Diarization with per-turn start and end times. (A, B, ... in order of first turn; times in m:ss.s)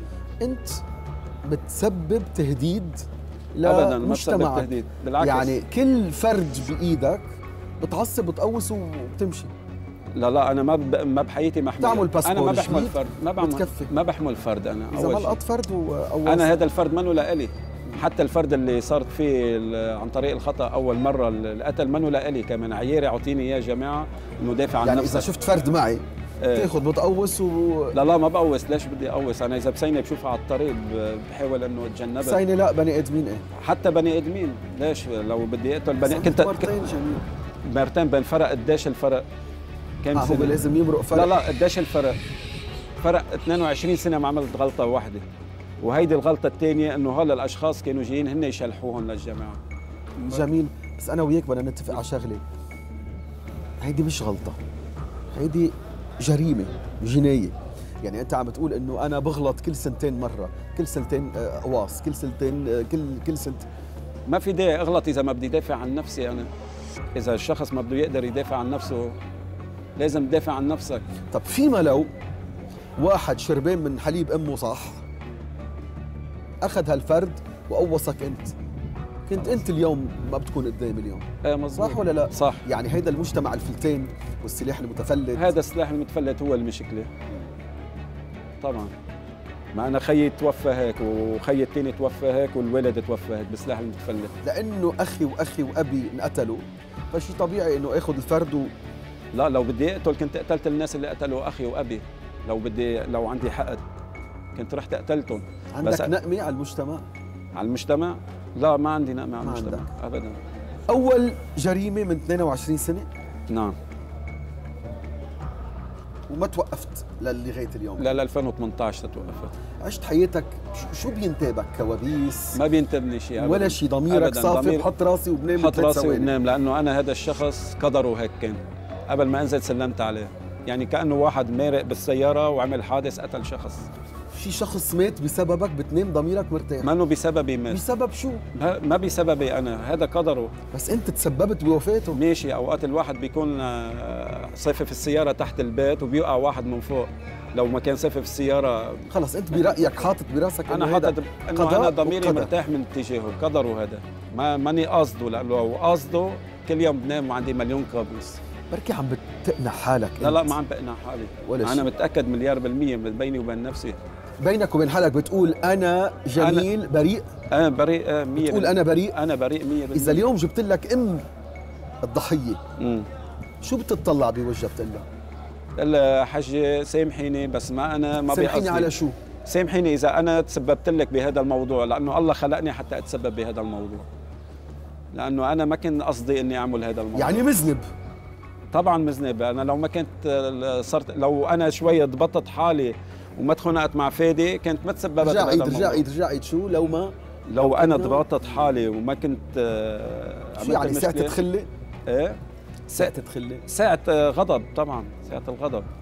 0:00.4-0:00.8 A
0:01.4-0:03.0 A
0:03.6-0:04.7 A
0:03.6-0:05.5 B
0:05.2-0:07.2 A
0:07.8-0:09.5 A
0:10.1-0:15.4 B
0:11.8-0:13.9 A
0:14.9-0:16.6 A
0:16.2-0:25.3 B
0:24.8-0:28.0 A
0:26.4-0:26.7 B
0:27.9-0:32.4 B
0:32.2-0:33.4 A
0:33.6-0:36.8 B
0:36.0-0:37.2 A
0:37.6-0:39.2 B
0:40.0-0:40.6 B
0:40.1-0:41.4 A
0:41.1-0:42.2 B
0:43.0-0:45.2 B
0:45.8-0:49.6 B
0:50.2-0:50.5 B
0:50.2-0:52.4 A
0:53.8-0:54.6 A
0:55.3-1:03.6 A
1:04.3-1:06.5 B
1:07.2-1:09.2 B
1:10.0-1:11.1 B
1:11.3-1:12.1 A
1:13.0-1:15.0 A
1:16.6-1:18.5 A
1:19.3-1:25.5 A
1:21.4-1:22.7 B
1:25.3-1:27.1 B
1:28.6-1:28.9 B
1:29.7-1:34.3 B
1:34.4-1:38.7 A
1:39.3-1:43.8 B
1:44.6-1:46.1 B
1:45.8-1:47.0 A
1:47.6-1:50.4 B
1:49.4-1:49.9 A
1:50.9-1:53.1 A
1:53.5-1:53.8 B
1:56.3-1:58.1 A
1:58.0-1:59.5 B
1:59.8-2:02.6 A
2:02.5-2:04.9 B
2:03.4-2:06.3 A
2:05.6-2:13.9 B
2:14.3-2:16.9 A
2:16.8-2:17.8 B
2:17.7-2:18.4 A
2:18.5-2:20.5 B
2:20.7-2:22.2 A
2:22.1-2:30.1 B
2:29.1-2:32.5 A
2:30.7-2:38.4 B
2:38.7-2:40.6 A
2:40.2-2:44.0 B
2:41.4-2:41.9 A
2:44.4-2:47.2 A
2:46.4-2:46.7 B
2:47.5-2:50.3 B
2:48.4-2:49.2 A
2:49.9-2:51.2 A
2:52.0-2:52.6 A
2:52.8-2:53.1 B
2:53.6-2:55.0 A
2:55.8-2:58.9 B
2:58.2-2:59.2 A
2:59.5-3:04.1 B
3:05.1-3:07.5 B
3:07.1-3:07.9 A
3:08.7-3:16.1 B
3:15.2-3:18.3 A
3:17.5-3:21.4 B
3:20.6-3:21.7 A
3:22.1-3:22.4 B
3:22.9-3:23.6 A
3:23.7-3:25.9 B